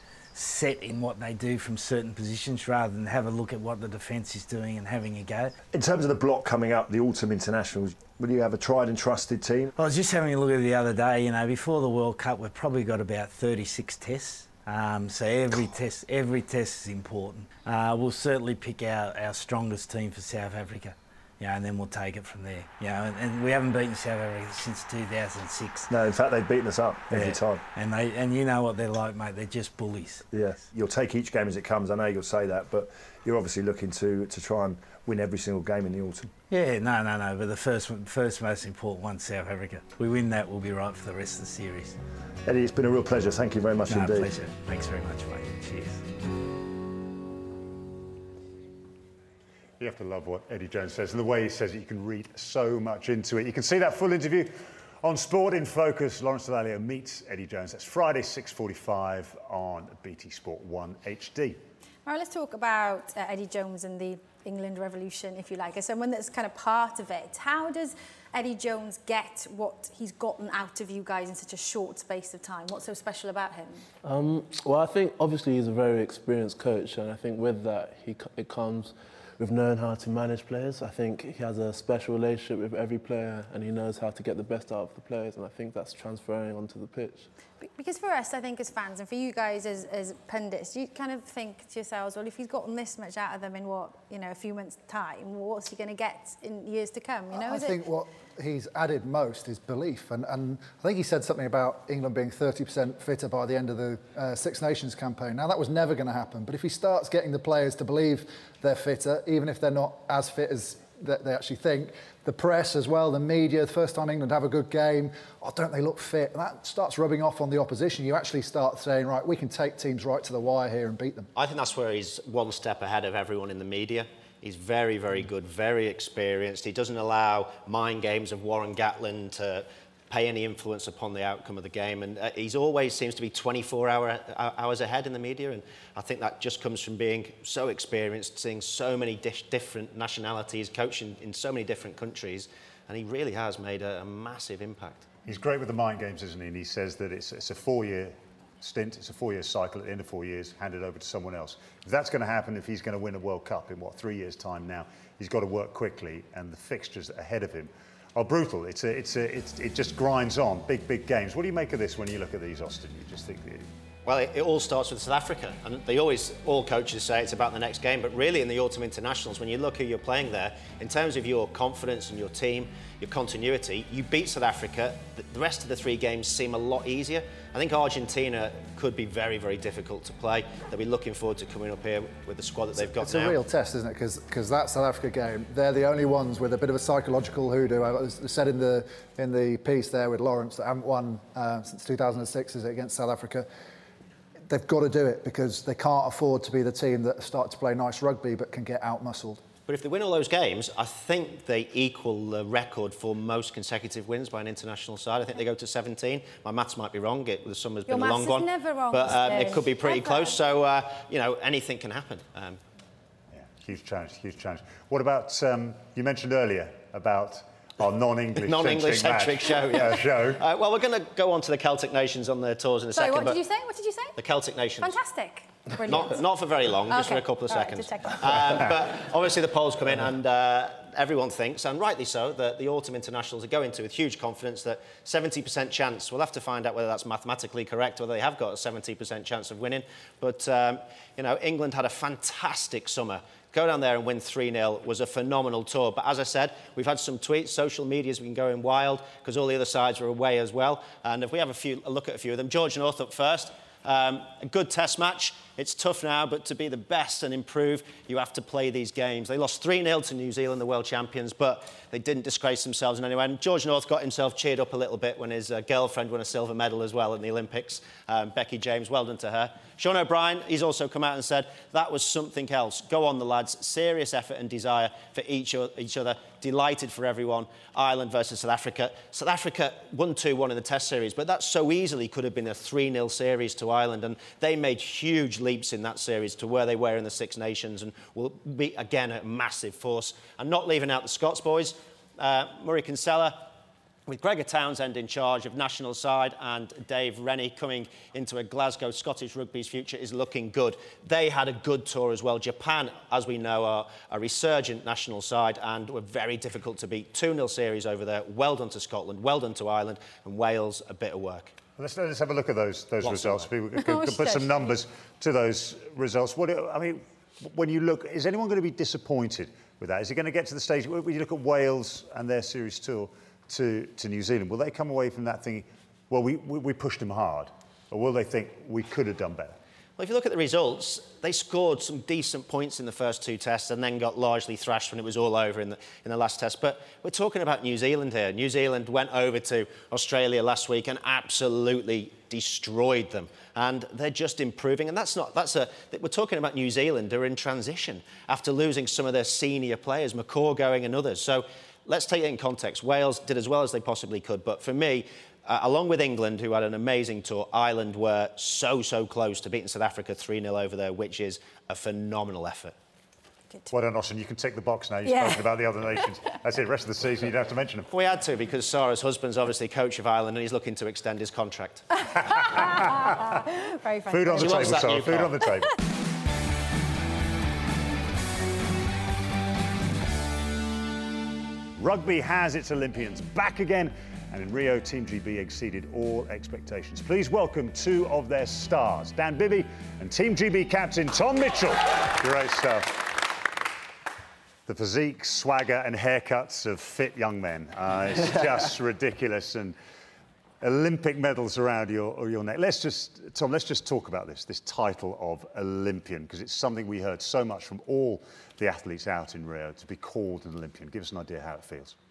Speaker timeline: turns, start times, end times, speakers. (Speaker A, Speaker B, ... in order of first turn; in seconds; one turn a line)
Speaker A: 0.3-5.5
Speaker B: 5.7-9.7
Speaker A: 9.8-25.9
Speaker B: 25.9-27.6
Speaker A: 27.1-30.3
Speaker B: 30.3-36.3
Speaker A: 36.5-42.0
Speaker B: 42.5-44.3
Speaker A: 43.9-46.0
Speaker C: 49.8-61.6
Speaker D: 62.0-73.8
Speaker E: 74.0-87.3
Speaker D: 87.6-97.8
Speaker F: 97.3-121.3
Speaker G: 121.4-145.1
Speaker C: 145.2-163.7
Speaker G: 164.1-183.4
Speaker F: 182.8-193.5
Speaker F: 194.5-199.4
Speaker G: 199.7-212.6
Speaker D: 207.9-210.4
Speaker C: 213.3-220.4
Speaker G: 218.4-223.4
Speaker D: 222.9-224.2
Speaker G: 224.2-225.0
Speaker D: 224.8-226.2
Speaker G: 225.8-293.5
Speaker D: 226.9-228.7
Speaker G: 294.1-311.5
Speaker C: 311.8-329.6
Speaker G: 313.0-313.5
Speaker D: 313.8-314.7
Speaker G: 330.0-362.8
Speaker C: 363.7-367.9
Speaker D: 365.0-365.5
Speaker G: 367.9-371.9
Speaker D: 372.0-375.4
Speaker C: 372.4-373.1
Speaker C: 374.1-375.7
Speaker G: 374.3-375.4
Speaker C: 381.8-393.1
Speaker C: 394.7-399.8
Speaker C: 400.6-411.9